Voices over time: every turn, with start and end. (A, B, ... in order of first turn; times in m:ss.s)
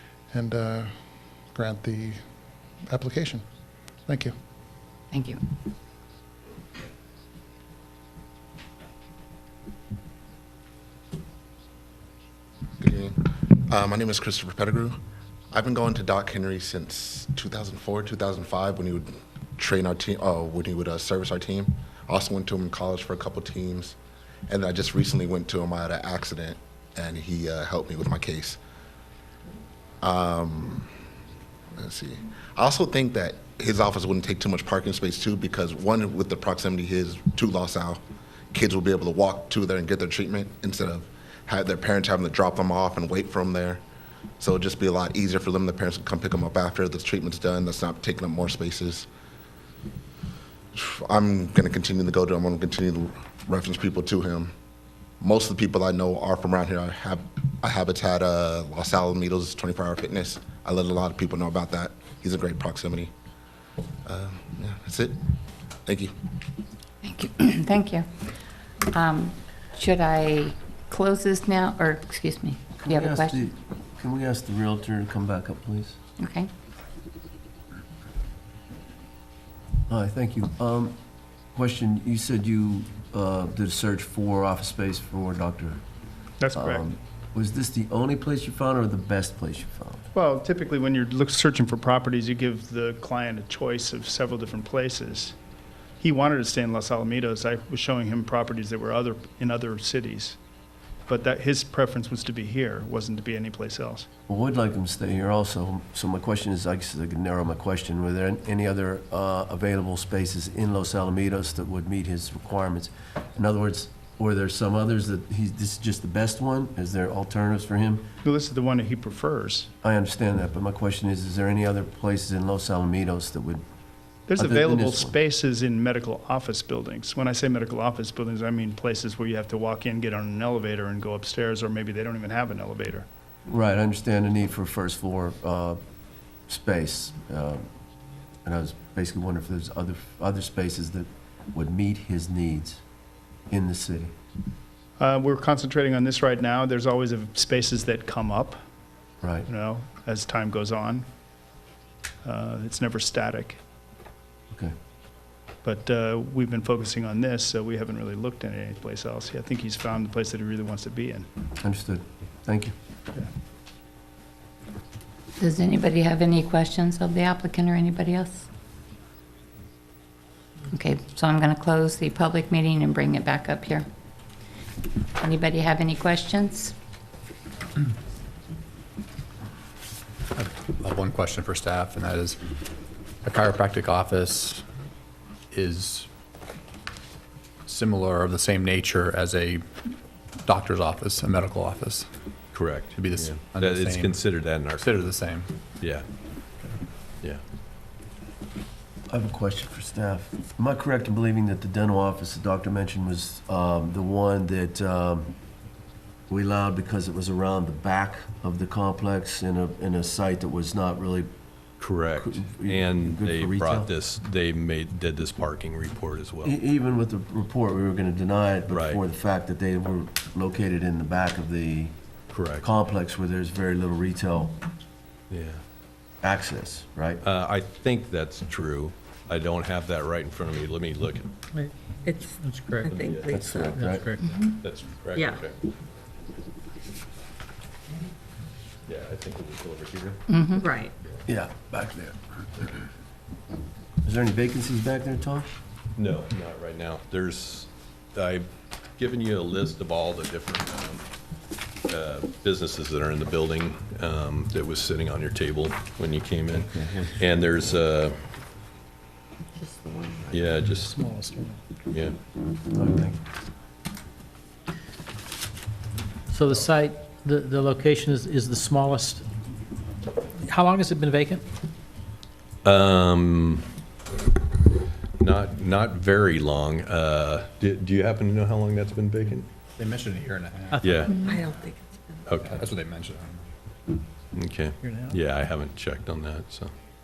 0:00.3-0:00.9 A
0:01.5-0:02.2 A
0:02.9-0:03.4 A
0:04.1-0:04.3 A
0:05.1-0:05.4 B
0:12.8-0:15.0 C
0:15.5-0:24.0 C
0:24.5-0:28.6 C
0:30.0-0:30.9 C
0:31.7-0:38.0 C
0:38.5-0:43.8 C
0:44.4-0:49.1 C
0:50.7-0:54.5 C
0:55.2-1:03.1 C
1:04.0-1:05.2 C
1:05.9-1:06.1 C
1:07.0-1:08.2 B
1:08.9-1:13.5 B
1:12.8-1:16.0 D
1:16.2-1:16.5 B
1:19.9-1:21.0 D
1:21.5-1:25.8 D
1:26.4-1:26.8 E
1:26.6-1:30.1 D
1:30.1-1:35.3 E
1:36.0-1:40.4 E
1:41.1-1:44.1 E
1:44.3-1:58.0 D
1:58.2-1:59.7 E
1:59.8-2:03.6 D
2:04.3-2:13.1 E
2:04.4-2:05.2 D
2:13.5-2:15.8 D
2:16.5-2:17.7 D
2:18.4-2:22.8 D
2:23.5-2:24.1 D
2:25.0-2:28.6 E
2:29.2-2:29.5 D
2:29.5-2:31.1 E
2:32.2-2:33.6 E
2:35.6-2:41.3 E
2:41.6-2:42.7 D
2:45.4-2:48.5 B
2:50.7-2:53.9 B
2:55.2-2:56.8 B
3:00.3-3:02.4 F
3:03.2-3:04.6 F
3:05.5-3:06.1 F
3:07.7-3:09.6 F
3:10.5-3:12.1 F
3:12.5-3:15.1 G
3:12.9-3:15.5 F
3:19.1-3:25.3 D
3:26.3-3:31.3 D
3:31.8-3:36.6 G
3:32.2-3:33.9 D
3:36.4-3:42.0 D
3:38.7-3:39.0 G
3:42.3-3:42.6 G
3:42.5-3:44.6 D
3:45.3-3:45.6 G
3:46.2-3:47.2 D
3:47.2-3:51.3 G
3:52.0-3:53.8 H
3:52.4-3:52.9 I
3:52.8-3:55.6 G
3:53.3-3:54.1 D
3:54.2-3:54.6 B
3:55.1-3:55.4 H
3:58.9-4:00.2 G
4:00.3-4:00.6 B
4:00.6-4:00.9 H
4:01.2-4:02.8 D
4:04.0-4:05.6 D
4:06.0-4:11.0 G
4:11.9-4:18.2 G
4:19.6-4:20.3 H
4:20.3-4:21.0 G
4:21.9-4:22.2 G
4:22.7-4:23.2 D
4:26.3-4:29.2 I
4:30.5-4:31.4 I
4:32.6-4:33.6 G
4:35.2-4:39.5 G
4:39.8-4:41.3 F
4:40.8-4:41.3 G
4:41.2-4:42.3 H
4:42.3-4:42.6 G
4:42.4-4:43.4 F
4:44.3-4:46.7 G
4:44.8-4:45.1 I